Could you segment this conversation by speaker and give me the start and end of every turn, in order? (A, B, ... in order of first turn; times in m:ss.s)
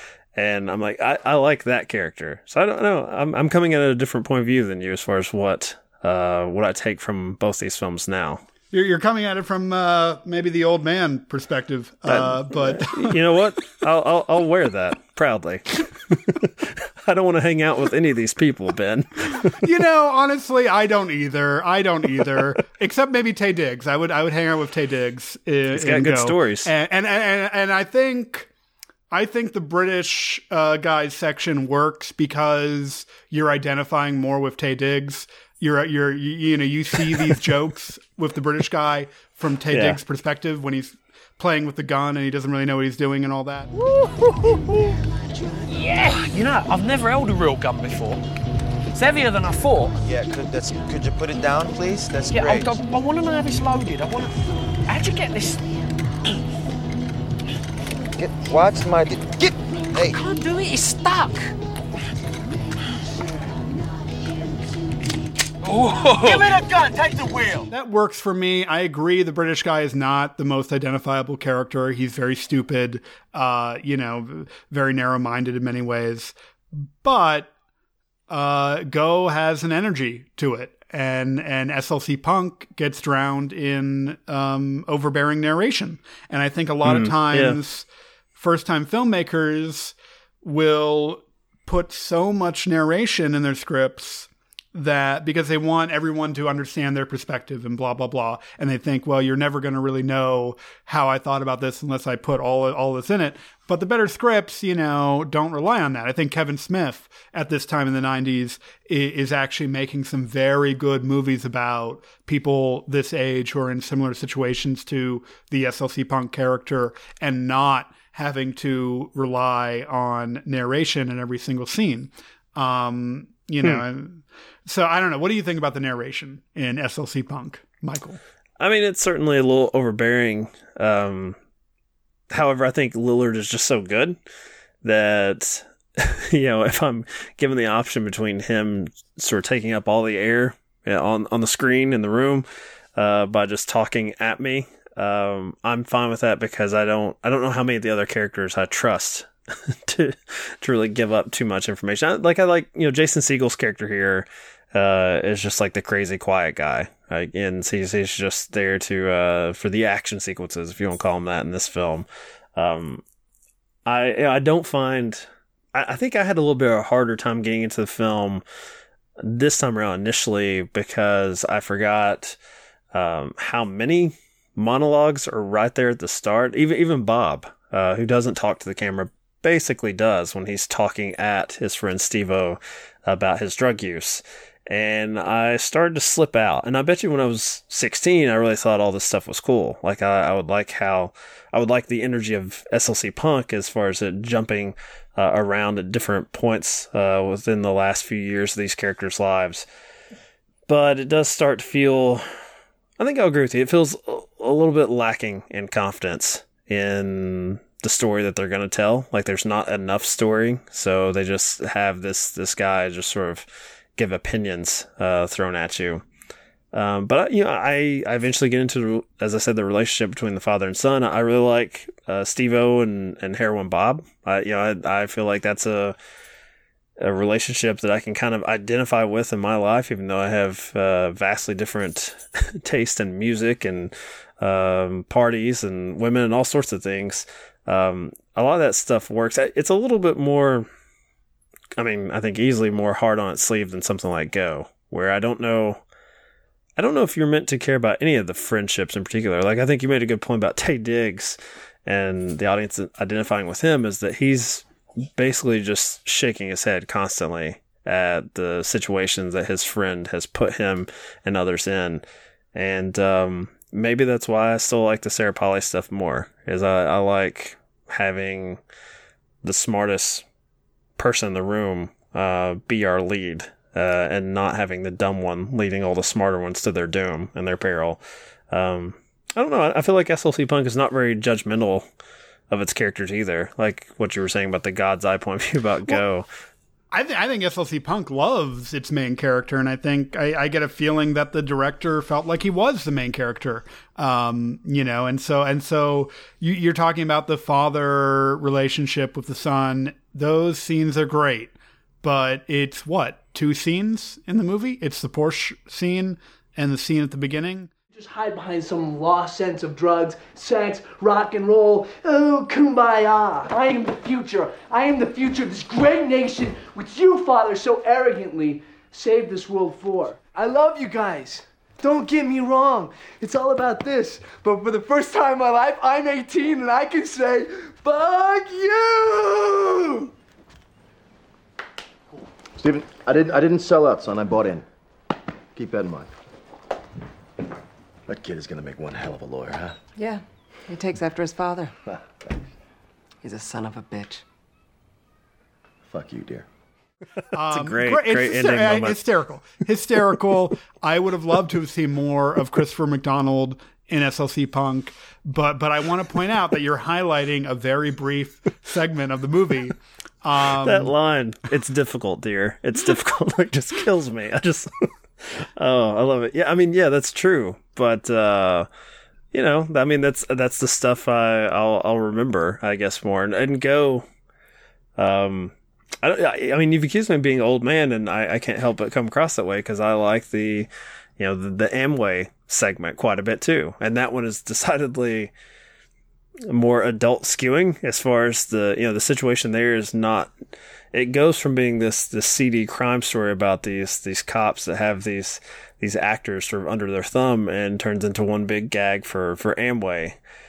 0:00.4-0:08.4 A
0:08.7-0:13.2 B
0:12.1-0:19.6 A
0:19.6-0:28.5 B
0:25.7-0:26.7 A
0:29.1-0:43.7 B
0:39.7-0:40.0 A
0:43.8-0:44.6 C
0:45.7-0:48.2 C
0:49.0-0:49.9 C
0:50.0-0:52.8 D
0:52.3-0:54.3 C
0:54.9-0:55.6 C
0:58.2-1:00.2 D
1:00.2-1:01.4 C
1:05.6-1:06.4 C
1:07.7-1:17.5 B
1:18.3-2:08.2 B
1:26.8-1:27.6 A
2:08.6-2:11.4 A
2:12.3-2:14.2 A
2:14.8-2:43.0 A
2:43.9-2:48.4 A
2:49.2-2:52.4 A
2:52.9-3:19.7 A
3:20.7-3:22.2 A
3:23.0-3:36.0 A
3:36.7-3:46.0 A
3:47.0-4:00.7 A
4:01.8-4:05.8 A
4:06.8-4:22.0 A
4:22.6-4:28.6 A
4:29.4-4:30.2 A
4:31.0-4:41.9 A
4:42.5-4:46.3 A
4:46.9-5:07.7 B
5:07.9-5:30.1 E
5:32.6-5:34.6 F
5:35.6-5:36.1 F
5:38.1-5:39.8 F
5:40.0-5:41.7 G
5:43.2-5:44.2 G
5:45.9-5:46.5 F
5:47.3-6:00.9 B
5:47.5-5:49.0 A
6:00.6-6:08.7 A
6:09.3-6:14.1 A
6:15.0-6:25.3 A
6:26.5-6:30.3 A
6:30.9-6:40.2 A